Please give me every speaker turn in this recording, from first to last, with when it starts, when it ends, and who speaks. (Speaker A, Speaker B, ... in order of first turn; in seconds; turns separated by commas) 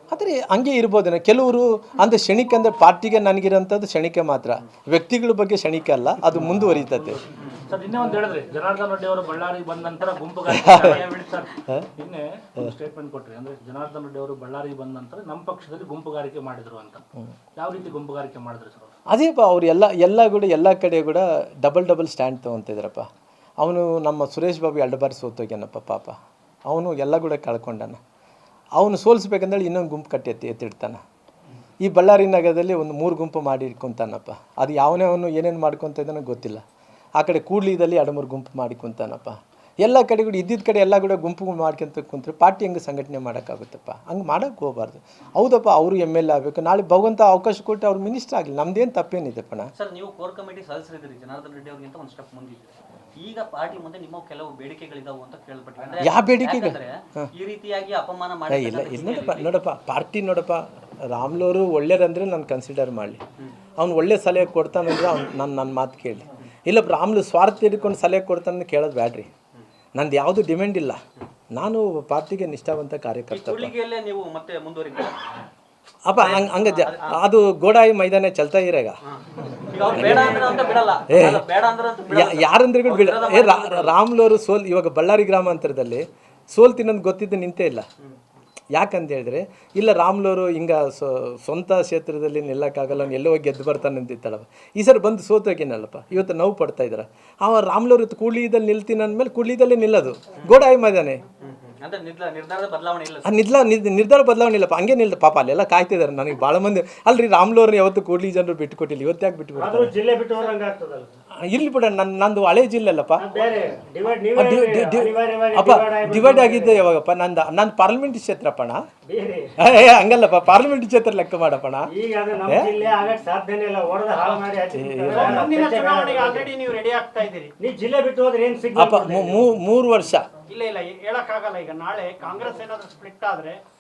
Speaker A: 0.1-7.2, Speaker B: 6.4-17.0, Speaker A: 10.5-11.1, Speaker C: 10.7-11.4, Speaker B: 17.6-18.9, Speaker A: 19.1-23.1, Speaker A: 23.6-26.2, Speaker A: 26.7-28.0, Speaker A: 28.8-31.0, Speaker A: 31.8-36.6, Speaker A: 37.2-49.7, Speaker C: 49.8-59.5, Speaker A: 56.0-57.3, Speaker A: 58.5-63.2, Speaker A: 63.8-69.3, Speaker A: 70.0-71.0, Speaker A: 71.5-73.7, Speaker C: 73.3-75.1, Speaker A: 76.1-79.0, Speaker C: 76.2-77.1, Speaker C: 79.1-83.9, Speaker A: 79.9-80.5, Speaker A: 81.1-81.4, Speaker A: 82.1-87.9, Speaker A: 88.8-101.2, Speaker C: 101.4-103.4, Speaker A: 103.2-109.9, Speaker D: 109.6-111.1, Speaker A: 111.5-113.2, Speaker D: 113.2-116.8, Speaker A: 114.3-118.8, Speaker D: 119.1-119.5, Speaker A: 119.6-121.9, Speaker D: 121.9-126.5, Speaker A: 122.5-122.7, Speaker A: 124.7-125.4, Speaker E: 125.1-127.5, Speaker D: 127.6-129.5, Speaker A: 128.8-130.2, Speaker E: 130.5-133.6